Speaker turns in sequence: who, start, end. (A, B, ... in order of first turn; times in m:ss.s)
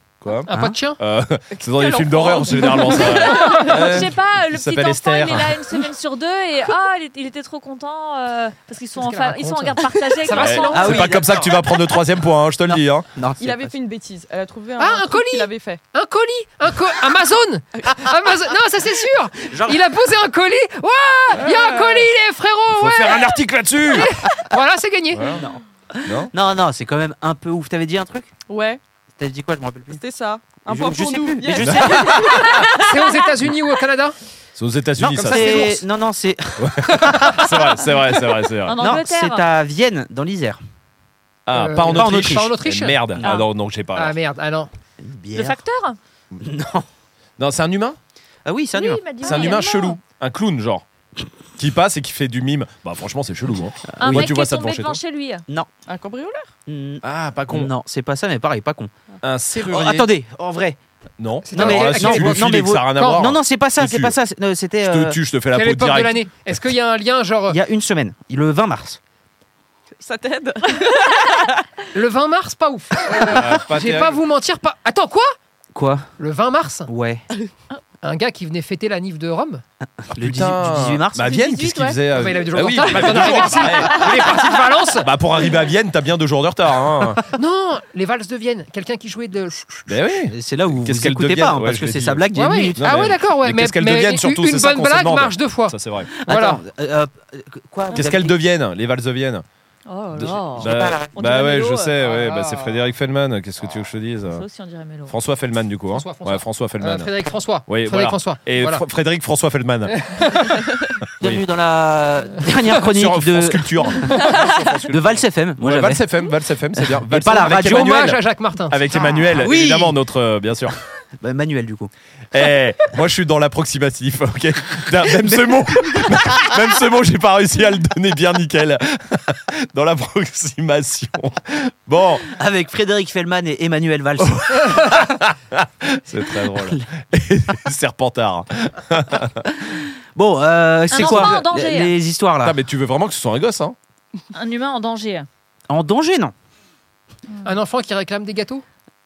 0:00.2-0:05.6 A
0:00.5-0:01.0 B
0:00.5-0:00.8 C
0:01.5-0:03.7 D
0:02.5-0:11.1 E
0:03.3-0:03.8 B
0:09.0-0:11.2 B
0:10.3-0:13.1 A
0:10.7-0:11.6 C
0:12.7-0:13.7 C
0:13.4-0:15.8 D
0:14.8-0:25.2 B
0:19.5-0:19.8 C
0:21.4-0:22.1 D
0:22.8-0:24.2 A
0:25.1-0:25.4 A
0:25.3-0:28.3 C
0:26.0-0:26.3 A
0:28.5-0:28.8 D
0:29.2-0:30.0 C
0:29.9-0:32.8 D
0:30.6-0:32.4 C
0:31.6-0:32.6 A
0:32.7-0:34.2 B
0:34.6-0:35.7 A
0:35.0-0:35.8 B
0:35.0-0:36.9 C
0:36.6-0:38.8 A
0:36.9-0:37.4 B
0:38.6-0:39.4 E
0:38.8-0:40.6 C
0:41.4-0:44.2 A
0:41.5-0:43.0 B
0:41.9-0:42.5 C
0:43.2-0:43.5 E
0:43.9-0:44.7 B
0:45.0-0:45.6 C
0:45.3-0:46.0 E
0:46.4-0:46.8 C
0:47.4-0:48.0 A
0:48.4-0:49.0 C
0:48.7-0:50.0 E
0:49.2-0:50.8 A
0:51.6-0:55.0 A
0:54.0-0:54.3 C
0:54.0-0:55.4 E
0:55.9-0:56.5 D
0:56.7-0:58.9 C
0:57.0-0:57.7 A
0:59.2-1:00.1 A
0:59.6-1:00.8 C
1:01.2-1:04.1 A
1:01.4-1:03.3 B
1:01.5-1:05.2 C
1:04.8-1:06.2 A
1:05.5-1:07.6 B
1:07.5-1:09.0 C
1:10.0-1:11.6 D
1:11.9-1:15.3 B
1:13.2-1:14.2 A
1:15.7-1:16.1 C
1:16.2-1:16.9 B
1:16.9-1:17.2 C
1:18.0-1:19.6 B
1:20.1-1:21.2 C
1:20.1-1:24.3 A
1:21.2-1:22.0 E
1:22.1-1:25.1 B
1:25.0-1:27.2 A
1:27.3-1:30.0 B
1:29.9-1:36.1 A
1:30.3-1:33.1 C
1:32.3-1:36.6 B
1:36.2-1:38.4 C
1:37.9-1:39.4 A
1:39.9-1:42.0 E
1:40.2-1:44.4 A
1:40.3-1:41.1 C
1:42.0-1:42.8 B
1:44.3-1:45.1 E
1:45.1-1:47.1 A
1:45.9-1:48.8 B
1:47.6-1:50.0 A
1:50.0-1:51.0 B
1:51.2-1:54.3 C
1:52.8-2:00.7 A
1:54.9-1:56.0 C
1:56.8-1:58.0 C
1:57.5-1:59.0 B
1:59.3-2:00.0 C
2:01.2-2:01.9 C
2:02.3-2:12.3 A
2:12.3-2:14.8 C
2:14.2-2:19.5 A
2:16.5-2:16.8 C
2:19.6-2:22.6 C
2:20.9-2:21.9 E
2:21.0-2:21.4 B
2:22.4-2:23.7 A
2:24.3-2:25.3 E
2:25.7-2:26.3 C
2:27.4-2:28.6 B